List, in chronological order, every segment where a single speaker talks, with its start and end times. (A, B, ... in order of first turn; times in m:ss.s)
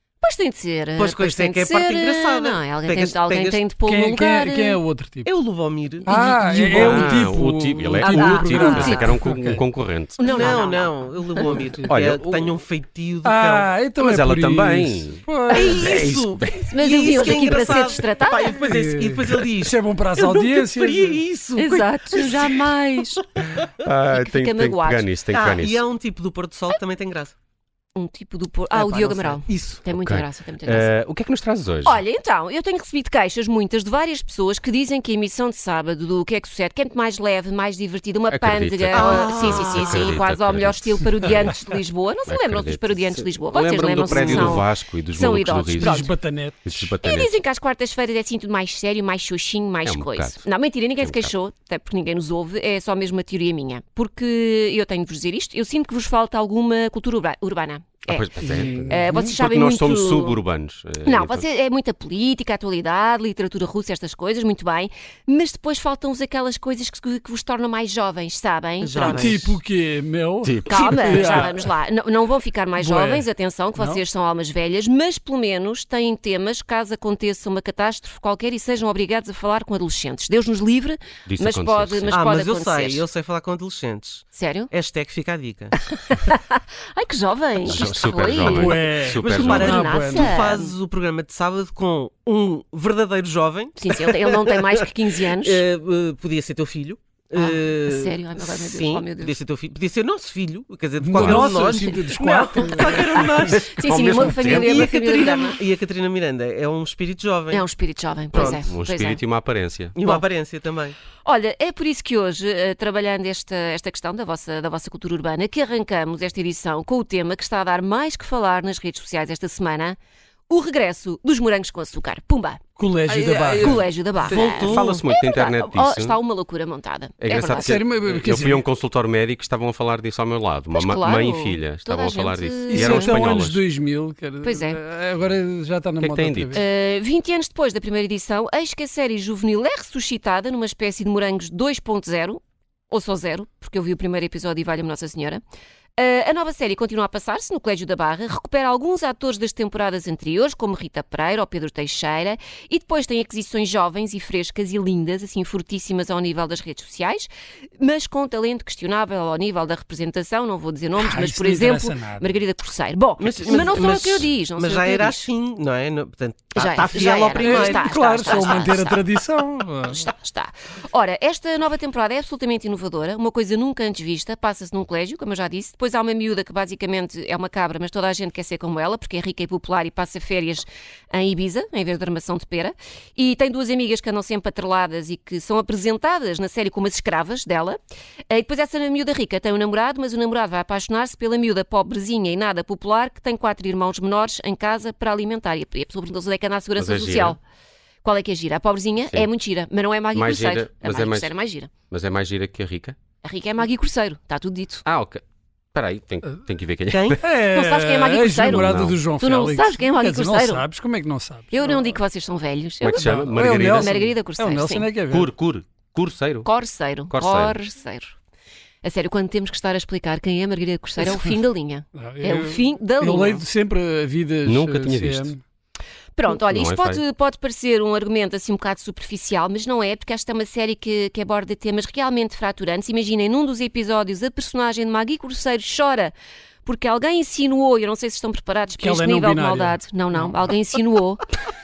0:00.2-0:04.8 A
0:01.0-0:03.6 B
0:03.8-0:05.3 C
0:05.2-0:06.1 B
0:06.0-0:09.6 C
0:06.0-0:07.2 A
0:06.7-0:10.2 D
0:08.0-0:09.0 B
0:08.2-0:09.1 A
0:10.2-0:11.7 A
0:10.2-0:13.7 B
0:11.4-0:11.9 C
0:11.9-0:12.5 D
0:13.2-0:16.0 C
0:14.0-0:16.7 D
0:15.5-0:23.7 B
0:16.6-0:18.6 A
0:18.6-0:21.2 C
0:21.6-0:23.2 A
0:23.8-0:25.8 D
0:24.1-0:25.1 A
0:25.3-0:27.3 B
0:27.9-0:30.9 A
0:28.7-0:29.8 B
0:29.9-0:32.0 D
0:31.8-0:46.1 A
0:38.3-0:41.6 D
0:38.9-0:40.2 B
0:42.3-0:46.1 D
0:44.1-0:44.6 B
0:45.8-0:46.9 C
0:46.6-0:47.4 D
0:47.0-0:58.3 A
0:49.8-0:50.4 D
0:51.0-0:51.3 D
0:58.1-1:01.4 D
0:58.4-0:59.3 C
0:58.9-1:00.4 A
1:01.0-1:09.4 A
1:08.8-1:09.6 B
1:08.9-1:11.7 C
1:10.4-1:11.5 D
1:10.6-1:23.1 A
1:12.8-1:14.0 C
1:21.2-1:22.2 D
1:22.1-1:25.7 B
1:24.3-1:24.7 A
1:25.9-1:30.8 A
1:27.6-1:29.8 D
1:28.4-1:30.3 C
1:29.2-1:43.6 B
1:33.8-1:35.6 A
1:37.3-1:39.4 A
1:41.0-1:43.5 C
1:41.2-1:41.5 D
1:42.5-1:45.6 A
1:43.5-1:44.9 D
1:44.3-1:47.6 B
1:47.5-1:49.2 A
1:48.3-1:50.0 D
1:48.3-1:48.6 B
1:50.0-1:51.0 B
1:51.2-2:00.0 A
2:00.5-2:07.8 A
2:02.8-2:03.8 C
2:03.6-2:05.0 B
2:04.4-2:06.2 D
2:07.2-2:13.6 D
2:07.3-2:08.6 C
2:10.7-2:13.2 A
2:12.7-2:16.6 C
2:14.4-2:14.8 A
2:16.0-2:16.6 D
2:16.5-2:25.4 A
2:26.0-2:45.3 A
2:41.0-2:42.3 C
2:43.2-2:48.8 B
2:46.5-2:49.0 A
2:47.3-2:50.1 C
2:49.8-3:07.8 A
3:08.3-3:17.4 A
3:16.8-3:17.4 D
3:18.0-3:21.7 A
3:20.1-3:21.3 D
3:21.9-3:23.0 D
3:23.2-3:24.8 A
3:24.8-3:25.2 D
3:25.7-3:27.2 D
3:26.9-3:27.2 B
3:27.2-3:31.8 C
3:27.4-3:30.7 A
3:31.5-3:34.9 A
3:32.8-3:34.0 D
3:32.9-3:35.3 C
3:35.1-3:36.5 D
3:36.4-3:38.2 A
3:37.1-3:37.6 D
3:38.8-3:43.4 A
3:41.9-3:45.4 C
3:44.4-3:45.3 D
3:46.1-4:01.3 A
3:46.3-3:47.0 D
3:58.8-4:00.4 C